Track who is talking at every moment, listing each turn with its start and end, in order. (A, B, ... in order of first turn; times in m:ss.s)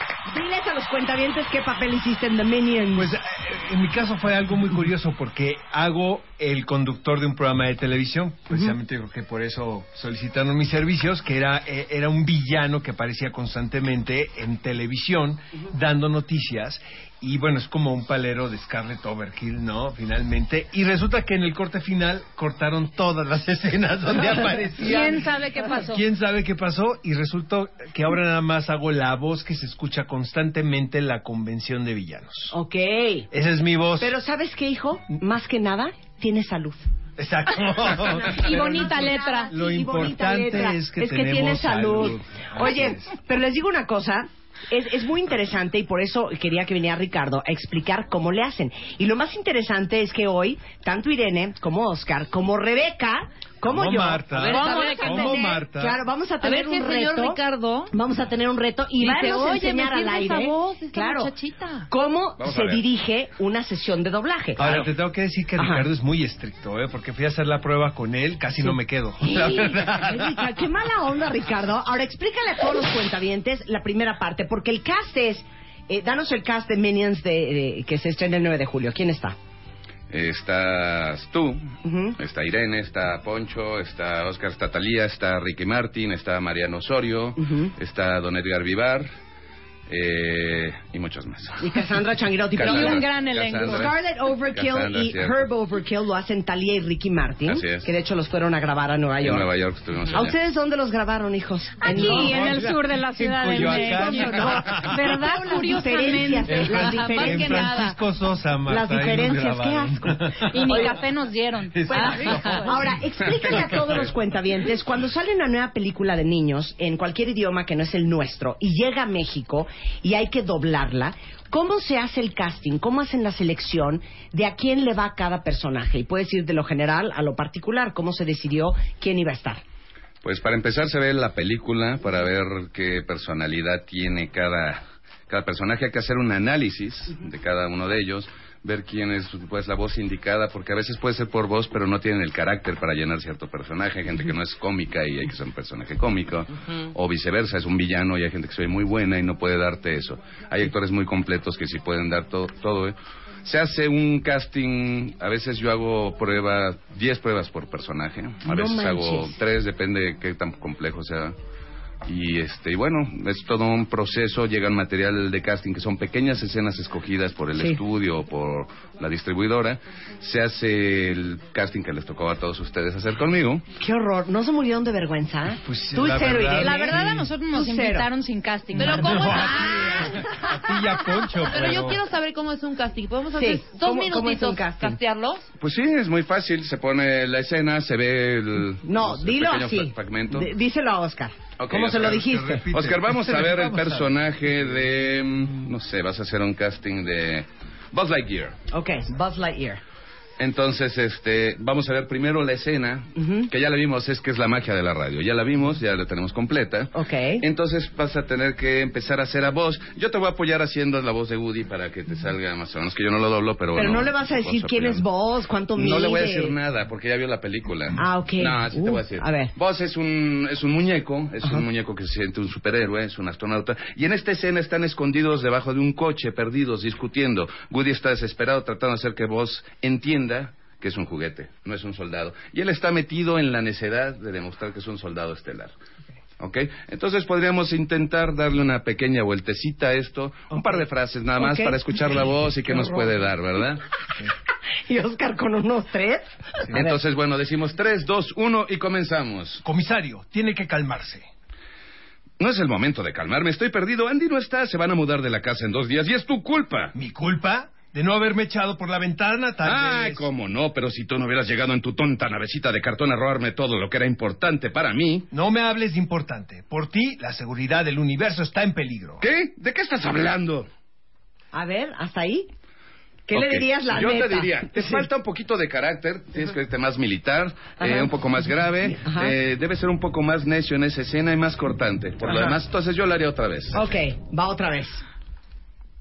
0:00.3-0:03.1 A
0:03.0-0:32.6 B
0:24.8-0:26.0 C
0:32.5-0:33.3 A
0:33.3-0:34.1 B
0:34.0-0:36.8 A
0:37.2-0:43.2 B
0:37.9-1:01.3 A
0:38.4-0:39.5 C
0:53.7-0:56.0 B
0:54.3-0:55.6 D
0:56.4-0:57.9 D
0:59.0-1:01.9 D
1:01.9-1:04.9 A
1:02.4-1:02.8 E
1:04.6-1:10.4 B
1:05.6-1:05.8 A
1:09.2-1:19.4 A
1:20.1-1:29.1 E
1:21.8-1:22.2 A
1:27.4-1:27.7 A
1:29.9-1:31.8 E
1:31.6-1:33.1 A
1:32.5-1:34.0 E
1:32.6-1:33.9 C
1:33.6-1:39.5 A
1:34.5-1:35.4 E
1:37.4-1:37.9 E
1:39.2-1:40.3 E
1:40.1-1:42.6 A
1:41.8-1:48.0 C
1:41.8-1:45.2 B
1:43.6-1:47.7 A
1:46.1-1:51.0 B
1:48.7-1:50.2 A
1:50.5-1:52.7 C
1:51.7-1:53.0 B
1:51.9-2:09.6 A
1:53.5-1:54.0 B
2:10.2-2:41.3 E
2:38.4-2:39.4 A
2:42.0-2:53.6 E
2:53.8-2:58.1 A
2:55.6-2:57.3 B
2:56.6-3:00.0 C
2:58.8-3:00.0 D
2:58.9-3:02.0 B
3:01.4-3:05.5 D
3:03.3-3:05.0 A
3:05.6-3:10.5 E
3:08.8-3:12.6 A
3:11.6-3:18.6 E
3:11.9-3:14.1 B
3:18.7-3:19.8 A
3:20.4-3:35.0 E
3:23.2-3:23.5 A
3:26.9-3:27.4 A
3:33.7-3:36.5 A
3:35.8-3:55.7 E
3:38.0-3:39.5 A
3:56.4-4:03.8 E
4:00.5-4:00.8 A
4:01.4-4:01.8 A
4:02.6-4:03.2 A
4:04.9-4:07.0 A
4:06.7-4:09.6 E
4:09.6-4:11.3 B
4:12.4-4:16.9 E
4:16.9-4:20.3 B
4:19.6-4:25.3 E
4:25.3-4:29.2 B
4:29.2-4:30.7 E
4:31.5-4:32.5 A
4:33.3-4:35.1 A
4:33.3-4:43.8 E
4:37.8-4:38.1 A
4:39.0-4:39.3 A
4:43.7-4:45.0 A